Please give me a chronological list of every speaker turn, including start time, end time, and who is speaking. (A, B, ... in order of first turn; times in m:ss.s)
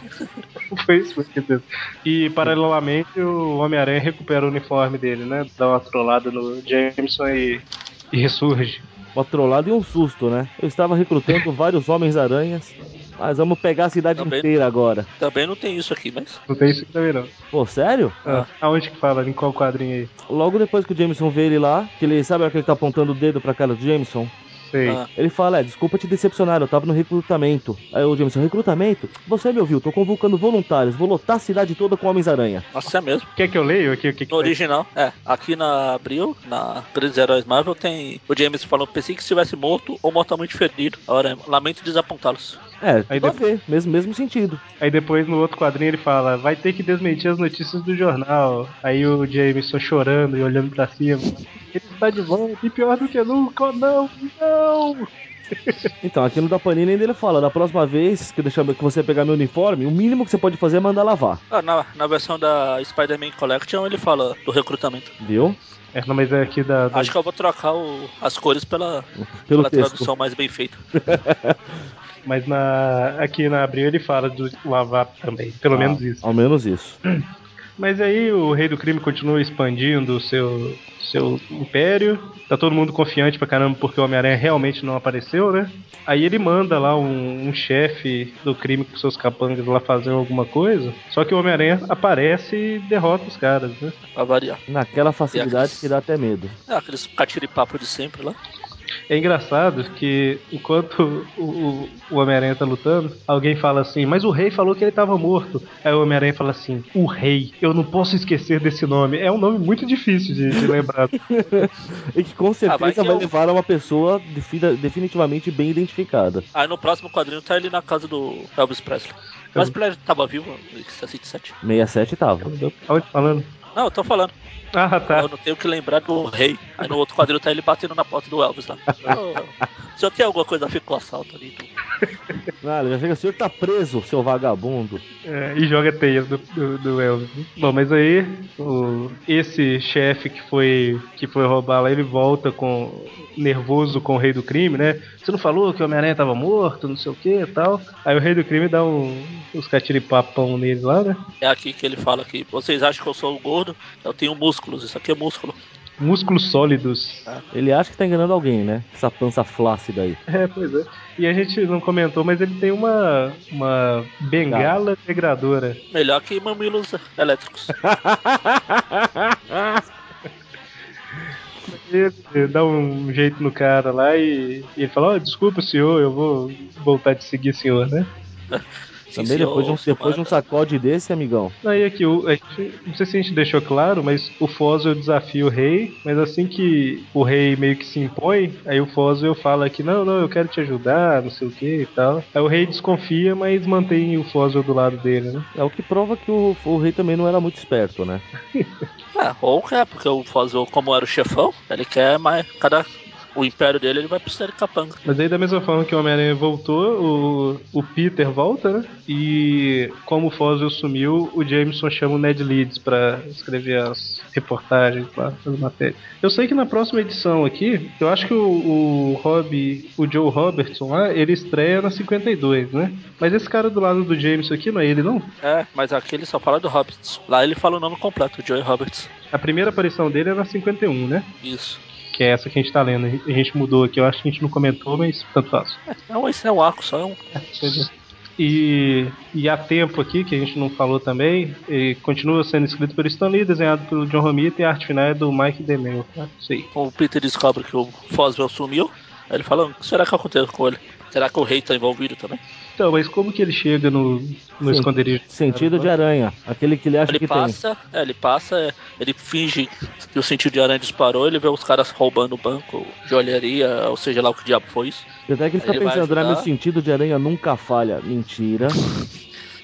0:00.7-0:08.8 A
0:09.1-0:15.1 B
0:14.2-0:14.5 C
0:15.2-0:16.4 C
0:16.5-0:17.3 A
0:17.5-0:18.2 B
0:18.2-0:20.1 A
0:20.3-0:24.3 B
0:24.7-0:25.0 A
0:25.2-0:32.6 B
0:32.7-0:33.3 C
0:33.4-0:34.5 A
0:34.3-0:42.6 C
0:42.8-0:44.6 B
0:43.1-0:43.4 A
0:44.8-0:55.1 A
0:56.0-1:01.4 B
1:01.5-1:05.1 C
1:05.2-1:05.6 B
1:05.9-1:07.1 A
1:06.9-1:10.8 C
1:09.2-1:10.1 B
1:11.0-1:11.8 B
1:12.2-1:16.2 A
1:15.7-1:17.0 B
1:17.8-1:34.0 A
1:34.1-1:34.6 C
1:34.7-1:36.5 B
1:35.3-1:35.9 C
1:36.7-1:38.4 C
1:39.1-1:51.7 A
1:51.2-1:56.4 B
1:52.7-1:53.3 C
1:56.5-2:01.5 C
2:01.6-2:02.5 B
2:02.4-2:03.5 A
2:03.7-2:04.3 C
2:04.7-2:05.3 A
2:05.1-2:11.7 C
2:12.6-2:15.0 B
2:15.2-2:31.2 A
2:31.4-2:35.6 C
2:36.0-2:37.3 A
2:37.5-2:40.2 B
2:40.3-2:45.8 A
2:44.5-2:44.7 B
2:45.9-2:47.7 C
2:47.8-2:49.8 B
2:51.7-2:58.1 A
2:58.5-3:00.4 C
2:59.2-3:01.6 B
3:01.6-3:15.5 A
3:15.5-3:18.2 B
3:19.1-3:25.0 C
3:25.0-3:45.3 A
3:45.4-3:49.1 C
3:49.3-3:51.3 A
3:51.4-3:51.8 C
3:52.1-3:55.8 A
3:55.9-3:57.2 C
3:57.3-4:06.7 A
4:06.7-4:12.4 C
4:12.8-4:15.9 A
4:14.6-4:17.6 B
4:17.1-4:25.0 C
4:25.3-4:28.8 B
4:25.6-4:26.5 C